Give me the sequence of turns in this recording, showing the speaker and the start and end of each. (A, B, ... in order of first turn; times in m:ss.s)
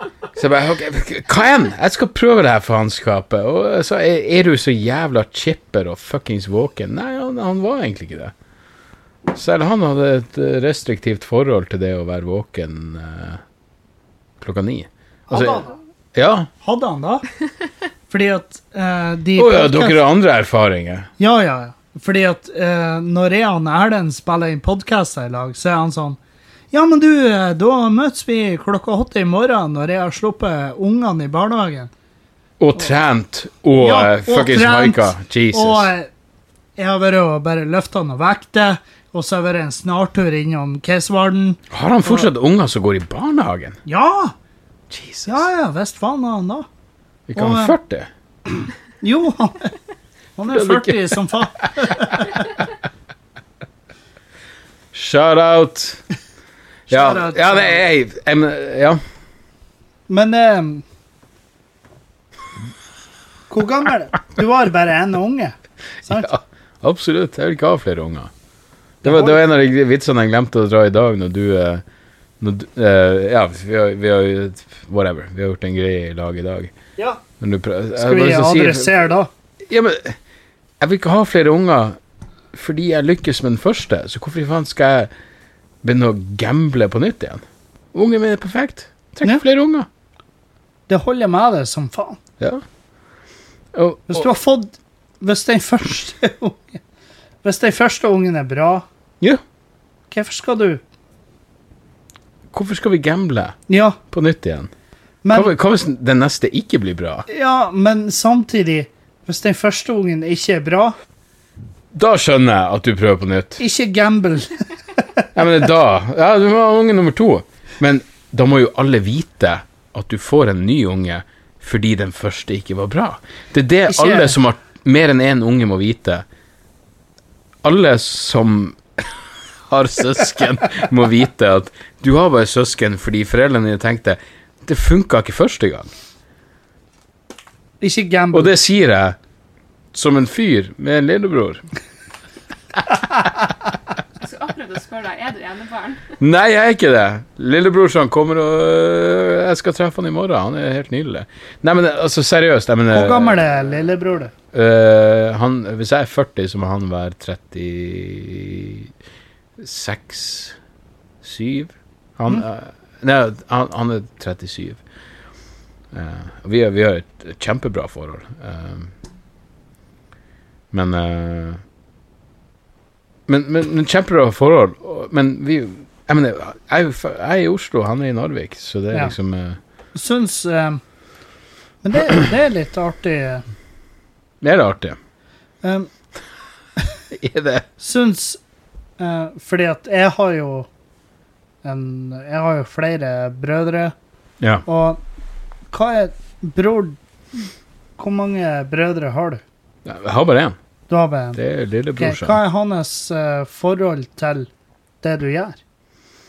0:00.4-0:08.3 A
0:09.3-0:13.4 A
0:14.4-0:15.6 A
0:15.3-0:15.8 B
0:16.2-0:16.5 A
0:16.6-0:17.3 B
0:18.1-0:20.0 B
0:19.4-0:21.1 A
0:21.2-0:26.2 B
0:26.7-0:31.9 B
0:32.6-0:35.9 A
0:33.8-0:36.1 B
0:36.8-0:42.3 B
0:41.7-0:43.8 A
0:43.9-0:44.3 B
0:44.9-0:45.5 A
0:45.3-0:46.7 B
0:47.3-0:48.1 A
0:47.4-0:47.8 B
0:48.5-0:49.8 B
0:50.4-0:52.6 B
0:50.5-0:51.3 A
0:51.8-0:52.2 A
0:54.9-0:56.0 A
0:56.9-0:57.8 B
0:56.9-0:59.0 A
1:00.1-1:00.8 B
1:03.5-1:06.3 B
1:06.1-1:08.3 A
1:09.0-1:09.4 B
1:09.0-1:11.8 A
1:12.4-1:16.7 A
1:17.4-1:18.9 A
1:18.0-1:19.3 B
1:19.7-1:20.2 A
1:20.8-1:22.0 A
1:22.5-1:25.1 A
1:25.8-1:27.4 A
1:27.9-1:29.9 A
1:30.9-1:32.2 B
1:33.7-1:34.3 A
1:34.1-1:36.8 B
1:37.4-1:38.9 B
1:40.1-1:40.8 B
1:42.5-1:43.6 A
1:43.7-1:44.0 B
1:44.1-1:44.7 A
1:45.2-1:45.5 B
1:45.3-1:47.3 A
1:47.3-1:51.0 B
1:51.9-1:53.6 A
1:53.6-1:55.3 B
1:55.4-2:06.2 A
2:03.9-2:04.4 B
2:07.6-2:15.9 A
2:17.8-2:18.5 B
2:18.3-2:19.2 A
2:19.9-2:21.6 A
2:24.2-2:26.2 C
2:26.2-2:33.8 A
2:32.9-2:34.3 B
2:34.5-2:38.9 A
2:39.6-2:40.6 A
2:41.2-2:44.8 A
2:45.9-2:48.9 A
2:50.7-2:51.6 A
2:53.3-2:59.6 A
3:00.0-3:00.8 B
3:01.8-3:03.4 B
3:04.4-3:05.0 A
3:05.6-3:05.9 B
3:07.1-3:07.7 A
3:07.8-3:08.4 B
3:09.0-3:10.7 B
3:11.6-3:14.0 B
3:14.6-3:15.0 B
3:15.7-3:19.4 B
3:19.8-3:20.6 A
3:20.9-3:21.4 B
3:21.4-3:22.4 A
3:22.0-3:24.5 B
3:25.0-3:25.6 B